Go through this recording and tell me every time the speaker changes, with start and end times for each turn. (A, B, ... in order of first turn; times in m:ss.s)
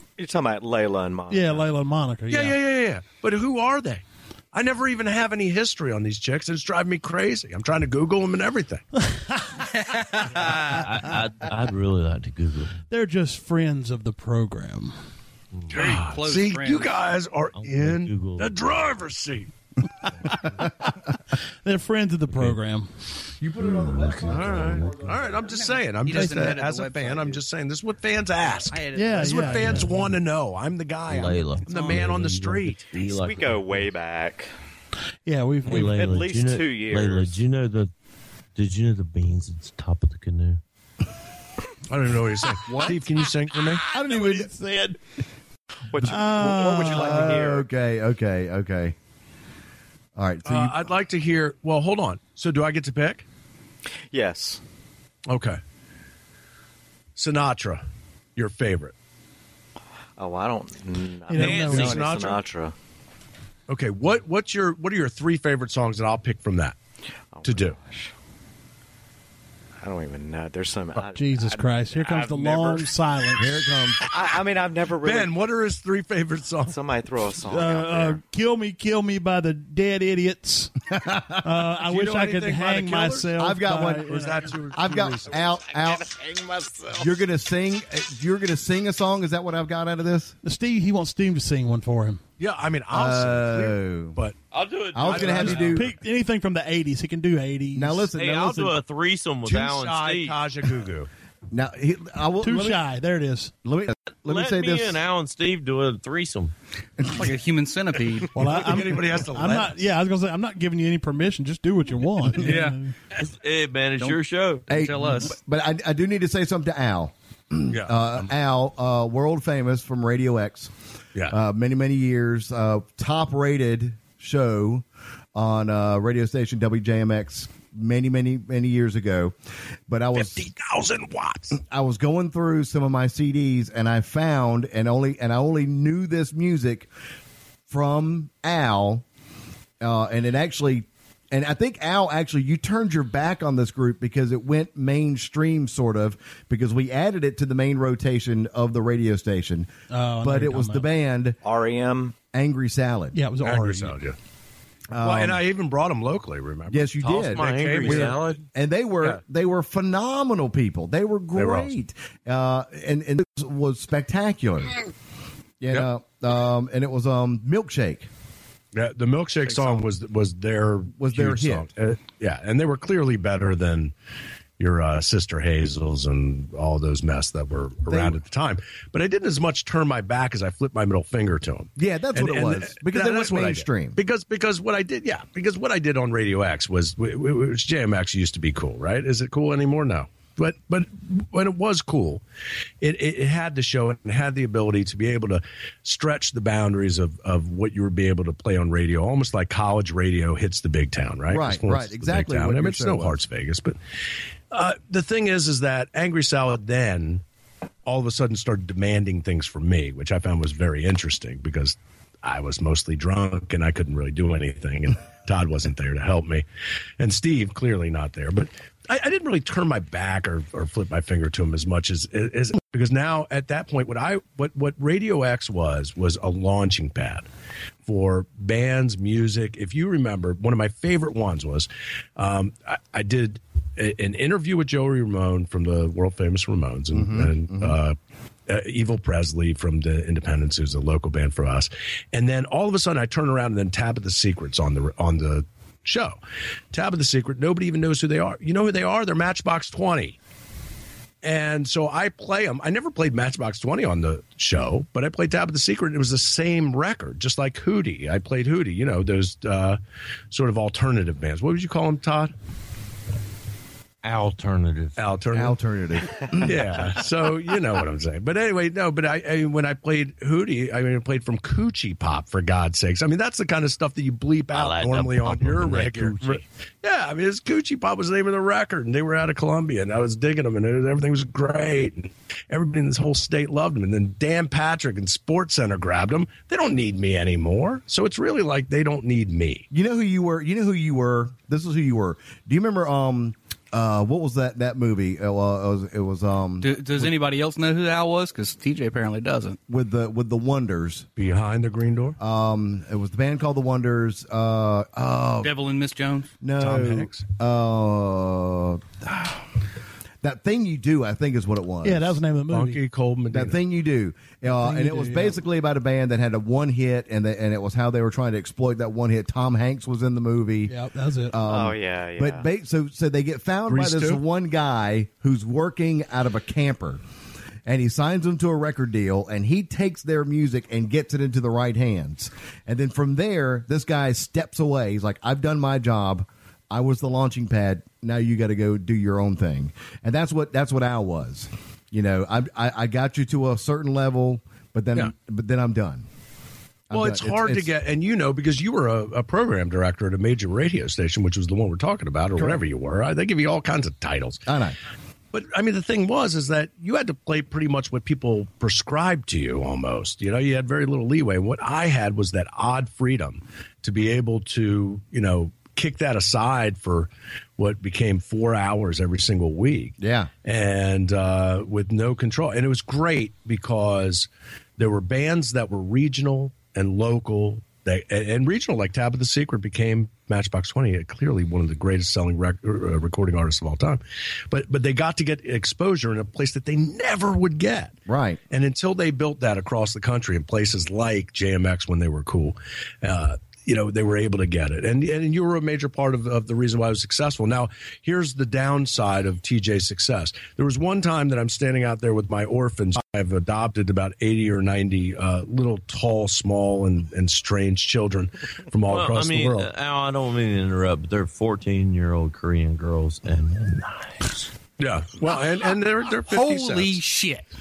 0:00.2-0:01.7 A
0:01.3-0:02.6 B
0:02.3-0:08.8 C
0:09.0-0:09.7 B
0:09.7-0:10.8 D
0:10.4-0:12.8 E
0:12.9-0:14.9 B
0:15.7-0:19.5 C
0:15.7-0:16.9 D
0:17.6-0:18.5 E
0:21.6-0:22.9 B
0:23.6-0:25.2 E
0:23.6-0:24.8 F
0:23.6-0:32.9 C
0:26.0-0:27.4 D
0:28.7-0:29.9 D
0:28.9-0:30.0 B
0:31.1-0:33.9 E
0:33.0-0:34.5 A
0:35.3-0:36.2 B
0:35.6-0:37.9 E
0:35.7-0:37.4 A
0:38.6-0:40.6 E
0:41.9-0:43.9 C
0:43.9-0:44.5 F
0:43.9-0:45.0 B
0:45.9-0:47.7 A
0:46.0-0:47.2 B
0:46.6-0:49.0 F
0:50.2-0:50.9 F
0:50.4-0:53.2 C
0:54.1-0:54.6 A
0:55.3-0:55.6 C
0:57.2-0:57.8 C
0:58.4-0:58.9 C
1:00.2-1:02.7 A
1:01.3-1:02.0 B
1:01.4-1:02.0 E
1:01.4-1:02.4 C
1:03.7-1:06.8 C
1:07.3-1:08.1 A
1:07.4-1:07.8 C
1:09.8-1:12.9 A
1:11.1-1:13.6 B
1:13.4-1:14.0 F
1:14.0-1:15.4 A
1:15.0-1:16.8 C
1:16.7-1:18.2 A
1:17.4-1:24.6 B
1:20.9-1:21.5 F
1:21.8-1:23.4 C
1:23.4-1:26.1 F
1:24.0-1:25.4 C
1:26.0-1:27.0 A
1:27.0-1:30.4 F
1:30.4-1:32.2 B
1:32.4-1:34.4 C
1:32.9-1:34.2 F
1:34.5-1:35.8 E
1:34.9-1:35.9 F
1:35.0-1:35.9 C
1:35.2-1:38.1 B
1:37.8-1:38.8 F
1:38.2-1:40.4 E
1:39.4-1:41.1 C
1:41.5-1:42.8 F
1:42.4-1:43.5 B
1:43.6-1:45.0 F
1:44.2-1:46.5 E
1:47.1-1:48.3 D
1:48.3-1:52.9 B
1:48.4-1:49.8 C
1:52.4-1:52.8 D
1:53.1-1:54.7 E
1:54.0-1:55.4 D
1:54.7-2:00.7 F
1:57.7-1:58.3 C
2:01.3-2:09.3 F
2:09.9-2:10.5 F
2:10.2-2:11.6 C
2:11.5-2:16.9 F
2:17.7-2:19.0 F
2:19.8-2:31.4 F
2:29.9-2:30.9 B
2:31.4-2:32.2 A
2:32.3-2:33.2 F
2:33.1-2:34.0 B
2:33.4-2:34.2 C
2:34.9-2:35.4 F
2:35.0-2:38.3 C
2:36.7-2:44.8 F
2:37.0-2:38.4 E
2:41.4-2:41.7 C
2:45.6-2:48.1 F
2:48.7-2:53.9 C
2:51.0-2:51.7 F
2:54.6-3:12.2 C
2:57.9-2:58.2 F
3:01.8-3:04.0 F
3:12.8-3:23.8 C
3:21.3-3:23.2 F
3:24.5-3:27.2 C
3:27.8-3:36.4 C
3:37.0-3:47.3 C
3:47.8-3:58.0 C
3:56.9-3:57.8 F
3:58.5-4:06.2 C
4:06.7-4:10.2 C
4:11.2-4:19.8 C
4:20.3-4:22.3 C
4:24.0-4:25.0 E
4:25.0-4:25.6 C
4:25.3-4:26.8 F
4:26.3-4:49.7 C
4:34.5-4:36.4 E
4:49.7-4:56.8 F
4:56.6-4:59.6 D
4:59.7-5:01.1 F
5:01.2-5:02.2 C
5:02.2-5:05.6 F
5:05.4-5:06.3 D
5:06.4-5:09.5 F
5:06.6-5:07.2 C
5:10.2-5:12.2 F
5:11.8-5:12.8 B
5:12.5-5:13.6 C
5:13.3-5:20.7 F
5:14.5-5:15.4 B
5:20.7-5:21.4 B
5:21.3-5:27.0 F
5:21.4-5:22.5 A
5:23.7-5:24.2 C
5:27.7-5:46.1 F
5:46.9-5:47.7 F
5:46.9-5:54.4 C
5:52.4-5:52.6 F
5:54.5-5:54.8 F
5:55.3-6:28.0 C
6:10.0-6:10.3 F
6:28.1-6:28.4 F
6:28.5-6:49.7 C
6:48.9-6:54.5 E
6:54.8-6:57.0 C
6:56.3-6:57.5 D